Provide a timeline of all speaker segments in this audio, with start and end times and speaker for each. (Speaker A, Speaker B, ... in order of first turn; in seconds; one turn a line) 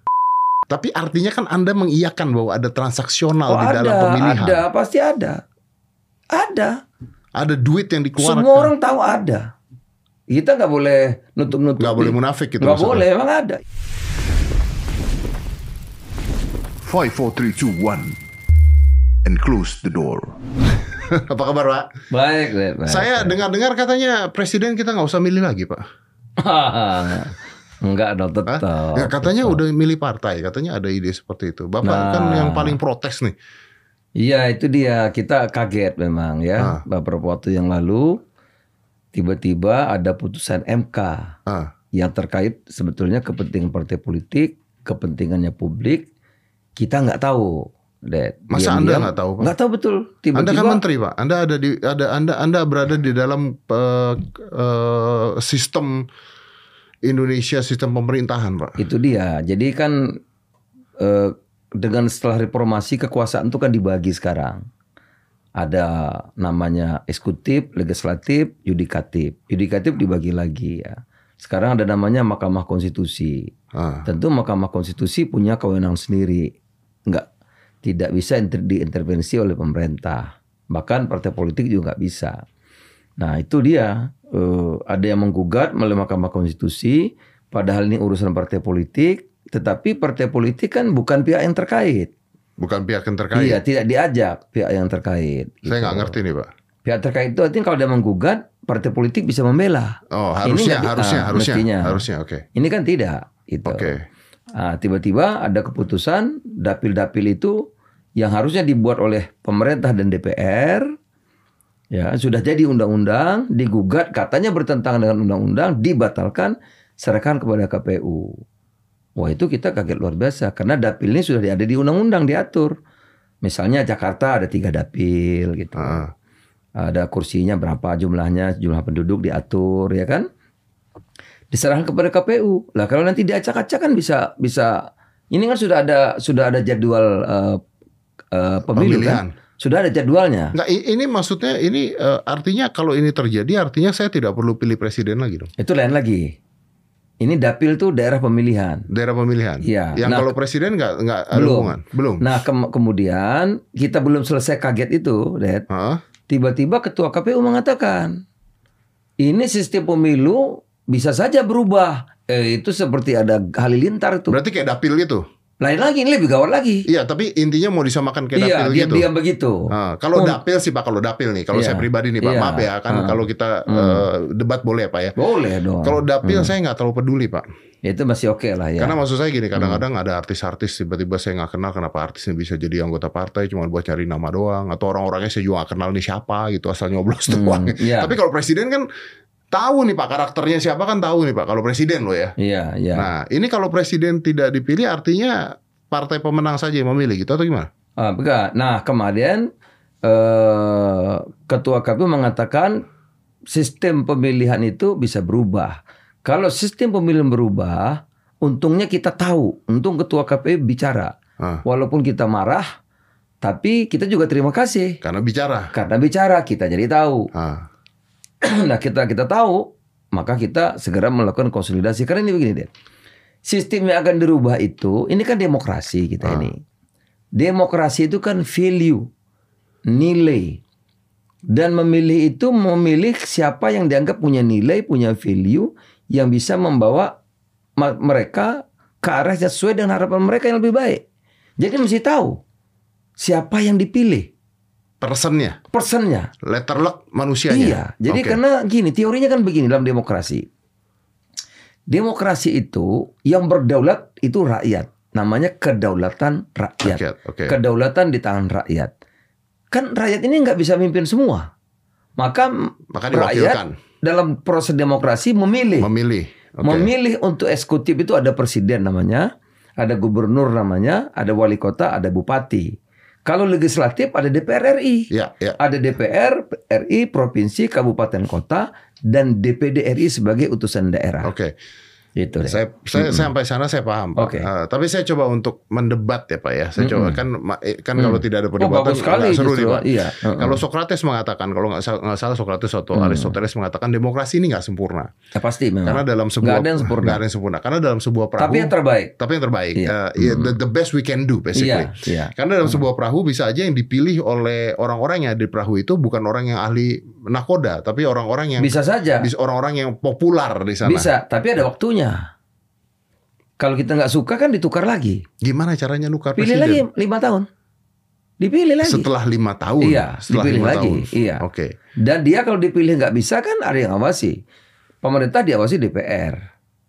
Speaker A: 0.7-4.6
Speaker B: 3.5-5.4
Speaker B: 6.3-6.8
Speaker A: 7.4-8.7
Speaker B: 8.2-9.5
Speaker B: 10.3-13.6
Speaker A: 11.8-13.0
Speaker C: 16.8-18.2
Speaker C: 19.2-20.4
Speaker A: 20.9-21.9
Speaker B: 22.1-23.4
Speaker A: 22.9-25.8
Speaker B: 26.4-29.6
Speaker A: 28.5-33.4
Speaker B: 31.8-32.8
Speaker B: 34.2-38.2
Speaker B: 39.1-41.3
Speaker B: 42.0-46.1
Speaker B: 46.8-50.8
Speaker A: 48.5-49.5
Speaker A: 50.3-56.0
Speaker A: 57.0-58.8
Speaker B: 58.8-60.0
Speaker B: 61.0-64.6
Speaker B: 65.6-73.5
Speaker A: 73.8-74.0
Speaker B: 74.0-76.5
Speaker B: 77.8-82.4
Speaker B: 83.2-92.1
Speaker A: 92.6-93.6
Speaker B: 93.3-96.2
Speaker A: 95.7-96.5
Speaker B: 96.8-102.0
Speaker A: 100.1-102.5
Speaker B: 102.5-103.9
Speaker A: 103.7-104.0
Speaker B: 104.6-107.6
Speaker B: 108.2-110.8
Speaker B: 111.9-118.4
Speaker B: 119.2-122.8
Speaker B: 123.4-126.0
Speaker A: 125.8-126.1
Speaker B: 126.8-130.3
Speaker B: 131.5-137.6
Speaker B: 138.3-140.5
Speaker A: 138.8-139.3
Speaker A: 140.5-145.5
Speaker B: 145.6-146.3
Speaker B: 147.2-148.9
Speaker A: 148.9-152.2
Speaker B: 149.6-150.3
Speaker B: 151.3-155.7
Speaker A: 155.7-156.0
Speaker B: 156.3-158.2
Speaker B: 159.2-164.4
Speaker A: 164.3-165.2
Speaker B: 165.6-166.8
Speaker A: 166.9-169.1
Speaker B: 168.3-170.4
Speaker A: 169.7-175.1
Speaker B: 171.5-174.1
Speaker B: 175.2-176.5
Speaker A: 175.8-177.4
Speaker B: 177.9-179.0
Speaker A: 178.8-188.8
Speaker B: 179.5-179.8
Speaker B: 187.3-188.1
Speaker A: 189.5-192.3
Speaker B: 192.4-193.1
Speaker A: 192.9-197.7
Speaker B: 198.0-199.5
Speaker B: 200.0-202.8
Speaker B: 203.5-211.1
Speaker B: 211.6-212.7
Speaker B: 213.4-215.0
Speaker A: 215.0-215.7
Speaker B: 215.7-217.3
Speaker A: 217.3-217.7
Speaker B: 218.4-222.7
Speaker B: 223.4-226.6
Speaker A: 226.2-226.5
Speaker B: 227.3-229.1
Speaker B: 229.9-230.6
Speaker B: 231.5-237.1
Speaker B: 237.8-241.0
Speaker B: 241.6-242.4
Speaker B: 243.2-244.3
Speaker A: 245.0-245.6
Speaker B: 245.7-246.3
Speaker A: 246.4-248.4
Speaker B: 247.5-250.4
Speaker B: 251.9-258.9
Speaker A: 256.9-257.6
Speaker B: 259.7-261.5
Speaker B: 262.2-265.9
Speaker A: 262.9-263.7
Speaker A: 265.8-266.9
Speaker B: 266.6-272.7
Speaker B: 273.2-275.1
Speaker A: 275.1-275.6
Speaker B: 275.6-281.3
Speaker A: 281.2-281.5
Speaker B: 282.2-283.3
Speaker A: 282.5-295.1
Speaker B: 284.2-284.5
Speaker B: 286.8-287.2
Speaker B: 288.0-290.6
Speaker B: 292.9-293.4
Speaker B: 295.4-297.2
Speaker A: 295.9-311.1
Speaker B: 298.4-299.1
Speaker B: 299.8-300.5
Speaker B: 301.6-302.8
Speaker B: 308.6-309.3
Speaker B: 310.9-312.3
Speaker B: 313.6-315.2
Speaker A: 315.4-316.9
Speaker B: 316.4-317.5
Speaker B: 318.4-319.1
Speaker A: 318.8-321.7
Speaker B: 319.8-321.4
Speaker B: 322.0-324.4
Speaker B: 325.0-326.4